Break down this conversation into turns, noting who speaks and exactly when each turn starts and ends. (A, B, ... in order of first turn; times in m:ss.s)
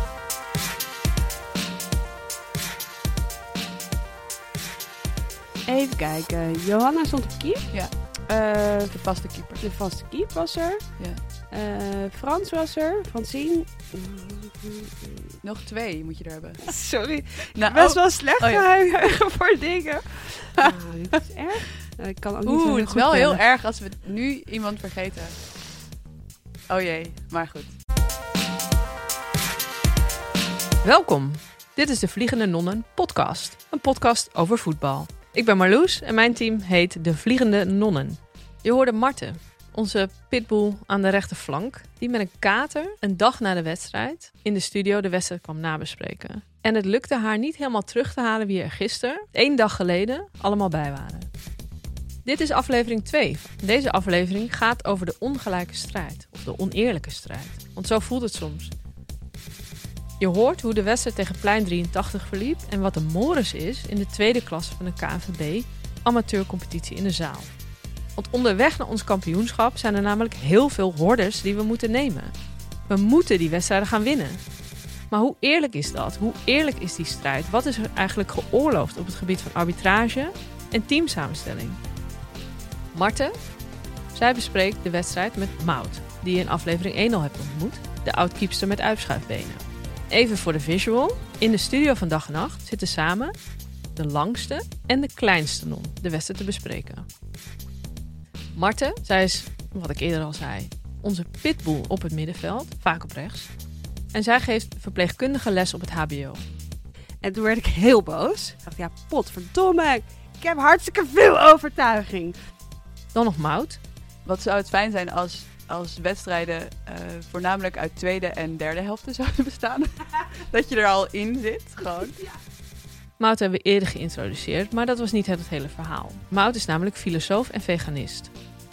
0:05.7-0:07.7 A
0:08.3-0:09.0 A
0:08.8-0:09.7 B
0:09.6-0:10.9 A
0:11.5-0:15.4 A
0:15.4-0:16.7 B
0:16.6-0:23.4 A
0:17.6-0:18.7 B
0:22.4-0:25.4 B
0:26.7-0:27.7 B
0:30.8-0:51.3 C
0:52.2-0:58.7 C
1:00.2-1:07.5 C
1:08.2-1:12.3 C
1:12.9-1:14.4 C
1:15.1-1:21.8 C
1:22.9-1:23.4 C
1:24.1-1:33.4 C
1:34.0-1:37.1 C
1:38.6-1:43.5 C
1:44.1-1:46.4 C
1:47.2-1:52.4 A
1:53.1-1:53.8 C
1:54.2-2:02.2 B
2:03.2-2:08.3 C